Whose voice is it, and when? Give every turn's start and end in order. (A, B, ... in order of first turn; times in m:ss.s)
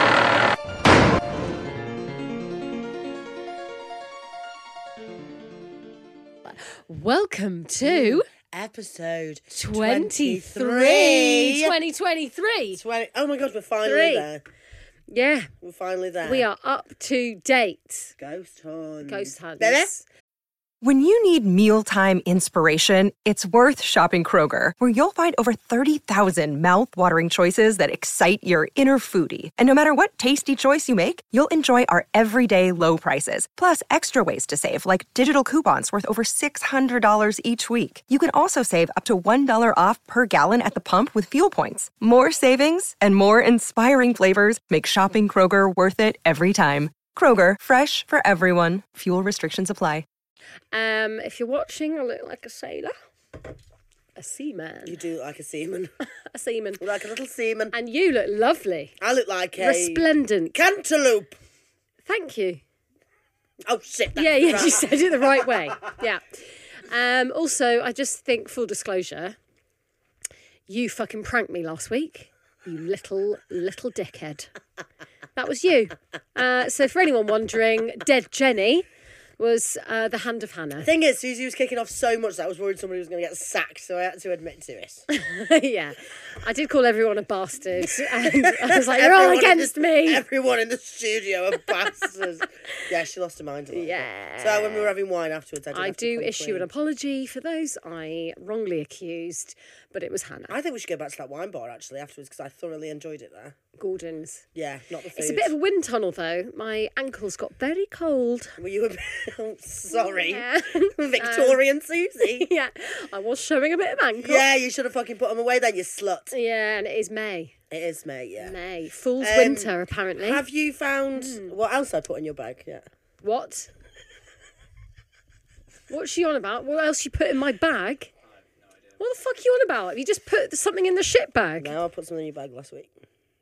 0:06.4-0:08.2 A
0:07.8-0:11.8 B
0:09.5-0:12.8 A
0:12.7-0:14.4 B
0:13.8-0:14.3 A
0:15.1-0:15.5 A
0:15.6-0:16.5 B
0:16.2-0:18.1 A
0:18.2-0:19.9 B
0:19.0-0:20.0 A
0:20.8-0:50.0 C
0:50.7-0:53.0 A
0:54.2-0:55.0 A
0:54.8-0:55.9 B
0:56.1-0:56.8 A
0:56.8-0:57.7 B
0:57.7-0:58.9 A
0:59.0-1:01.4 B
0:59.6-1:00.6 A
1:02.0-1:02.6 A
1:03.6-1:05.8 B
1:04.1-1:09.4 A
1:10.7-1:14.5 A
1:15.3-1:18.9 A
1:19.4-1:20.9 A
1:20.8-1:25.0 B
1:25.1-1:30.2 A
1:27.8-1:36.7 B
1:33.7-1:34.9 A
1:35.7-1:40.6 A
1:40.5-1:43.6 B
1:43.8-1:44.4 A
1:44.5-1:45.5 B
1:45.2-1:48.6 A
1:48.6-1:52.5 B
1:49.9-1:51.6 A
1:52.2-1:54.4 A
1:54.2-1:56.3 B
1:56.3-1:57.5 A
1:57.7-1:58.6 B
1:58.4-2:00.4 A
1:59.2-2:02.8 B
2:01.2-2:01.5 A
2:03.2-2:03.7 A
2:05.9-2:08.1 A
2:09.0-2:11.8 A
2:11.6-2:12.9 B